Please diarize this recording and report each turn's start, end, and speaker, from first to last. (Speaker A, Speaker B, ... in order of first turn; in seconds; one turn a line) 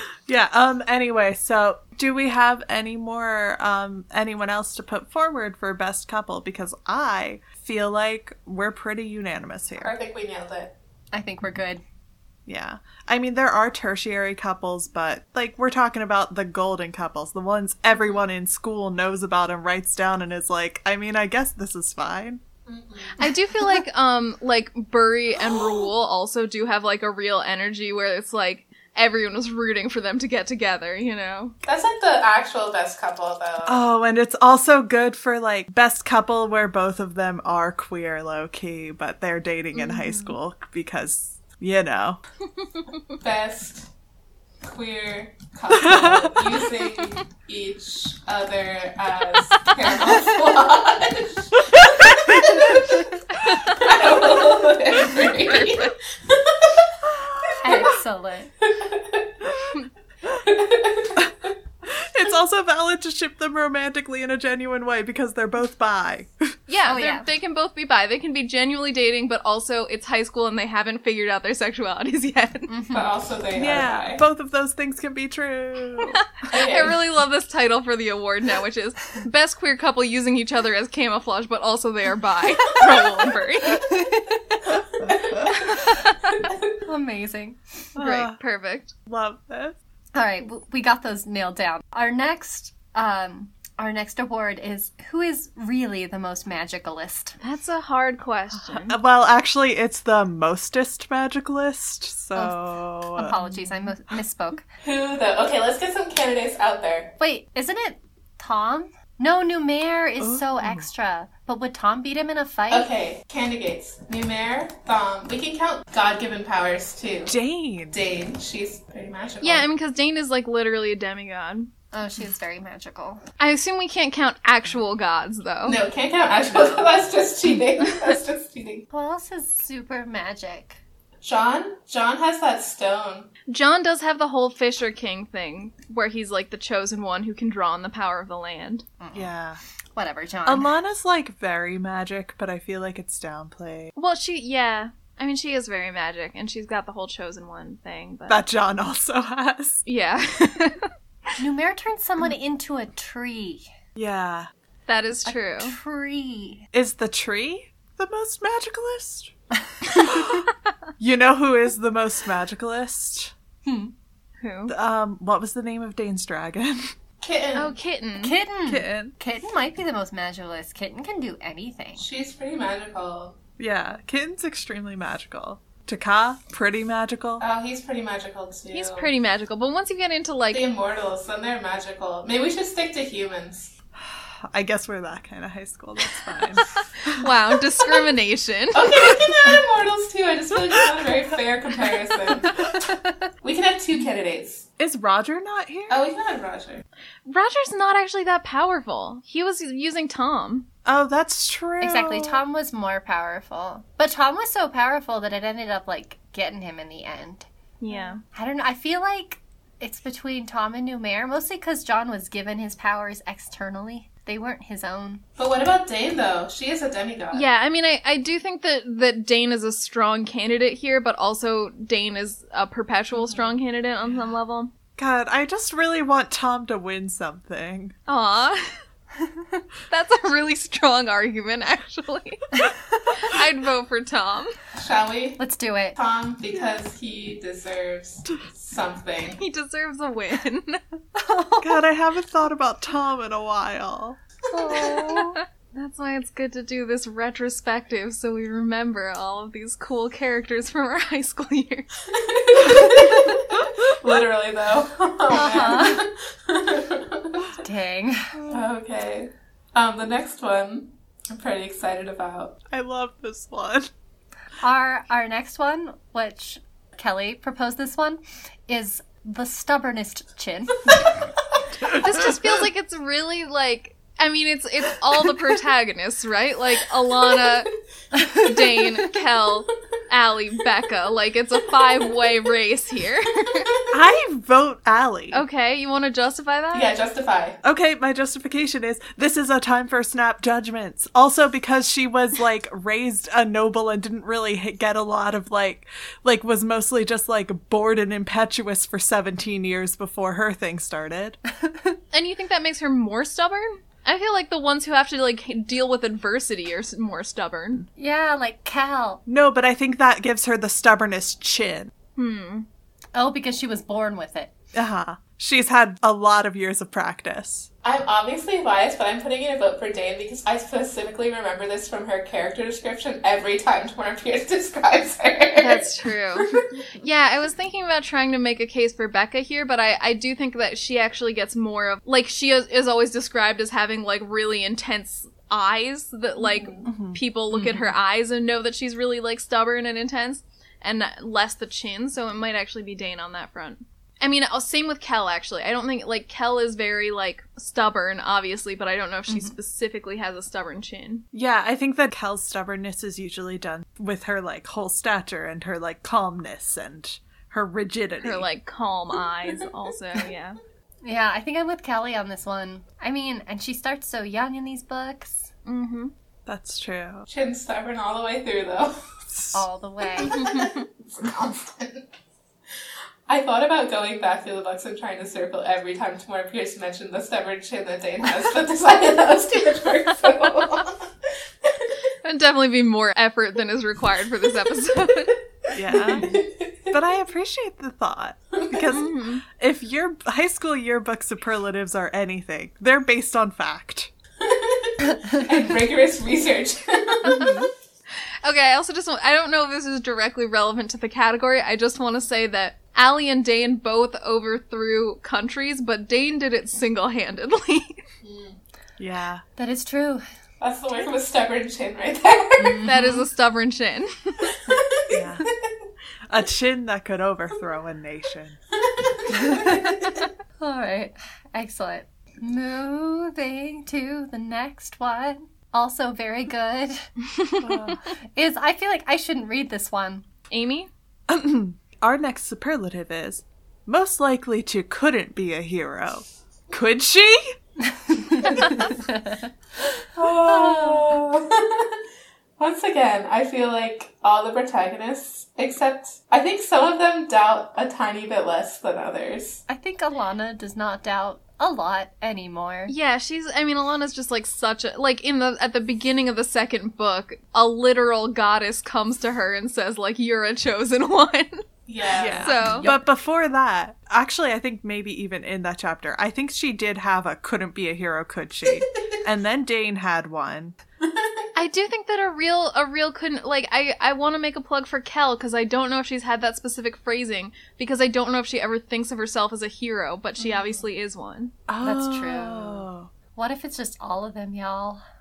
Speaker A: 0.2-9.9
Speaker B: 9.8-10.7
Speaker C: 11.1-11.8
Speaker A: 12.5-22.4
Speaker B: 22.7-23.3
Speaker D: 23.2-31.6
Speaker B: 31.6-33.8
Speaker A: 33.6-42.2
Speaker D: 39.7-40.4
Speaker B: 43.1-43.9
Speaker B: 44.6-53.0
Speaker A: 45.7-46.4
Speaker A: 52.1-52.6
Speaker B: 53.5-57.0
Speaker A: 57.1-57.9
Speaker B: 57.5-57.9
Speaker C: 57.6-58.5
Speaker B: 58.6-59.3
Speaker B: 60.4-61.2
Speaker A: 61.9-66.5
Speaker D: 66.7-72.9
Speaker C: 66.8-67.3
Speaker C: 72.7-73.1
Speaker B: 72.9-74.2
Speaker A: 73.5-76.3
Speaker D: 76.5-83.9
Speaker B: 76.5-77.0
Speaker C: 83.7-84.6
Speaker A: 85.0-85.5
Speaker B: 85.0-86.7
Speaker C: 86.8-87.6
Speaker A: 88.0-88.4
Speaker D: 88.0-88.9
Speaker A: 89.0-89.8
Speaker C: 90.1-97.4
Speaker D: 97.4-99.0
Speaker A: 98.7-103.9
Speaker C: 102.3-104.7
Speaker B: 104.8-107.1
Speaker C: 107.2-112.9
Speaker A: 110.2-110.9
Speaker B: 112.7-117.3
Speaker A: 117.3-118.0
Speaker B: 117.9-119.7
Speaker D: 119.4-121.7
Speaker C: 121.9-123.2
Speaker D: 123.4-125.8
Speaker B: 125.6-128.8
Speaker C: 128.9-130.8
Speaker B: 131.2-133.3
Speaker D: 133.5-138.8
Speaker C: 139.0-139.3
Speaker A: 139.1-139.6
Speaker C: 139.9-140.7
Speaker A: 140.4-143.9
Speaker D: 143.9-148.4
Speaker A: 148.3-149.8
Speaker D: 149.8-150.9
Speaker C: 151.4-153.7
Speaker A: 153.9-154.5
Speaker D: 154.9-155.8
Speaker C: 155.2-156.6
Speaker A: 156.7-159.3
Speaker A: 159.9-160.5
Speaker A: 161.0-163.3
Speaker C: 163.6-163.9
Speaker D: 164.4-164.7
Speaker A: 164.7-166.9
Speaker B: 167.2-167.7
Speaker D: 167.6-168.4
Speaker C: 168.2-172.1
Speaker A: 168.7-169.1
Speaker B: 171.9-173.4
Speaker A: 173.6-177.4
Speaker B: 177.4-179.1
Speaker D: 178.7-180.6
Speaker B: 180.5-183.7
Speaker A: 184.0-187.3
Speaker D: 187.1-189.1
Speaker B: 188.7-192.6
Speaker C: 192.8-193.2
Speaker B: 193.4-194.7
Speaker A: 194.8-196.0
Speaker B: 195.9-196.8
Speaker D: 197.2-200.7
Speaker A: 200.8-202.4
Speaker C: 201.8-215.2
Speaker D: 207.8-208.2
Speaker B: 215.4-217.4
Speaker D: 217.3-224.7
Speaker A: 224.9-227.9
Speaker D: 228.1-228.7
Speaker D: 229.9-234.5
Speaker B: 234.8-235.4
Speaker C: 235.4-236.0
Speaker B: 235.9-239.4
Speaker D: 239.4-240.8
Speaker C: 241.1-241.8
Speaker A: 241.6-244.2
Speaker C: 244.5-245.4
Speaker D: 245.0-251.9
Speaker B: 252.1-257.5
Speaker C: 255.3-256.0
Speaker C: 257.6-258.4
Speaker B: 258.5-262.6
Speaker A: 262.7-263.9
Speaker C: 264.6-271.1
Speaker A: 271.7-272.6
Speaker D: 271.8-283.7
Speaker B: 277.2-277.5
Speaker A: 283.9-285.4
Speaker D: 285.3-286.9
Speaker B: 286.7-287.6
Speaker A: 287.6-301.4
Speaker C: 301.6-302.0
Speaker D: 302.1-307.9
Speaker C: 308.0-309.2
Speaker A: 309.2-311.9
Speaker D: 312.2-312.6
Speaker C: 313.1-314.5
Speaker A: 314.7-317.7
Speaker B: 317.8-325.9
Speaker D: 325.6-351.2
Speaker B: 336.4-336.9
Speaker A: 336.9-337.9
Speaker C: 349.3-349.5
Speaker A: 351.3-358.4
Speaker D: 358.2-360.6
Speaker C: 361.0-365.5
Speaker D: 365.6-366.1
Speaker A: 366.4-367.3
Speaker B: 367.3-368.9
Speaker A: 369.3-369.6
Speaker C: 369.5-370.4
Speaker B: 370.2-372.1
Speaker D: 370.2-370.8
Speaker B: 373.3-381.1
Speaker B: 381.6-381.9
Speaker D: 382.2-385.4
Speaker A: 385.7-386.4
Speaker B: 385.9-386.9
Speaker A: 386.9-394.1
Speaker B: 388.5-389.0
Speaker D: 388.9-389.4
Speaker B: 394.4-397.5
Speaker A: 397.2-397.7
Speaker D: 398.4-408.0
Speaker B: 408.2-408.6
Speaker A: 409.0-409.4
Speaker C: 409.6-410.2
Speaker B: 410.6-412.9
Speaker C: 412.6-413.3
Speaker D: 412.8-414.5
Speaker B: 414.5-415.7
Speaker A: 415.1-415.5
Speaker A: 416.3-418.6
Speaker B: 418.8-420.3
Speaker A: 419.3-419.8
Speaker C: 419.4-427.1
Speaker A: 427.6-428.1
Speaker C: 427.6-430.2
Speaker D: 430.5-430.9
Speaker A: 431.3-437.5
Speaker C: 438.1-439.5
Speaker B: 440.1-442.0
Speaker C: 440.4-441.1
Speaker B: 442.6-449.6
Speaker C: 449.7-452.9
Speaker D: 452.9-461.6
Speaker B: 461.9-462.6
Speaker A: 462.2-470.8
Speaker D: 462.4-463.0
Speaker C: 462.6-462.9
Speaker B: 471.0-471.5
Speaker D: 471.6-481.5
Speaker A: 481.7-483.1
Speaker C: 481.8-485.0